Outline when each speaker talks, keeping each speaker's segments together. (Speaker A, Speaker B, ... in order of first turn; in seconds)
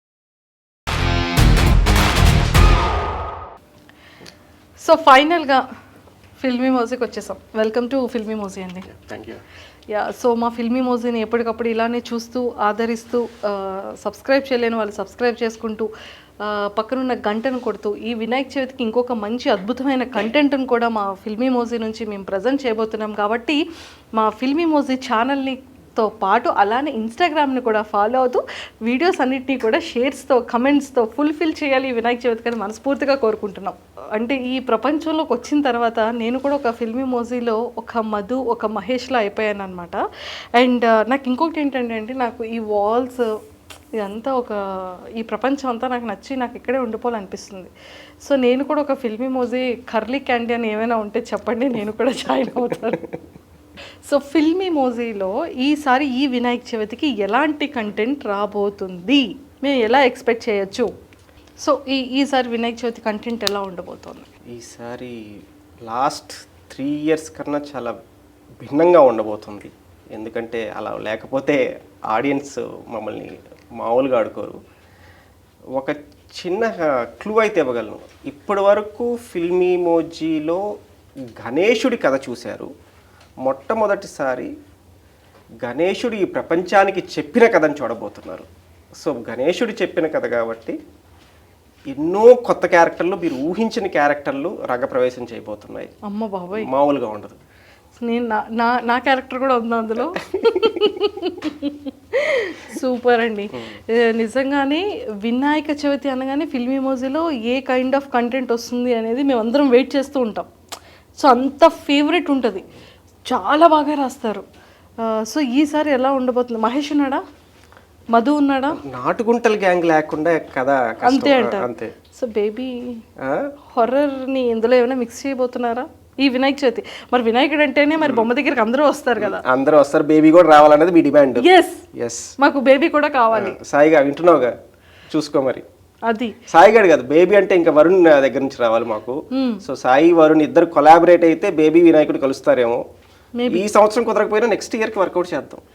Speaker A: 4.8-5.6, 6.4-8.9, 9.9-15.9, 16.4-23.6, 24.2-40.0, 40.5-43.2, 43.9-44.6, 45.2-47.7, 48.2-53.1, 54.1-60.9, 61.6-64.2, 96.1-96.7, 98.0-110.5, 111.2-112.6, 113.3-114.5, 115.0-117.2, 118.1-118.8, 121.0-123.0, 123.7-129.4, 131.4-131.8, 132.4-133.5, 136.1-136.3, 139.3-139.6, 143.4-143.6
Speaker B: 8.9-9.4, 64.5-68.0, 68.6-74.6, 75.8-80.6, 81.4-82.7, 83.4-84.5, 85.6-90.8, 91.8-95.9, 96.5-97.4, 100.0-100.9, 103.5-103.8, 118.7-121.9, 123.2-123.5, 128.0-128.3, 129.2-132.3, 133.3-134.5, 135.1-135.7, 136.5-142.8, 143.5-145.6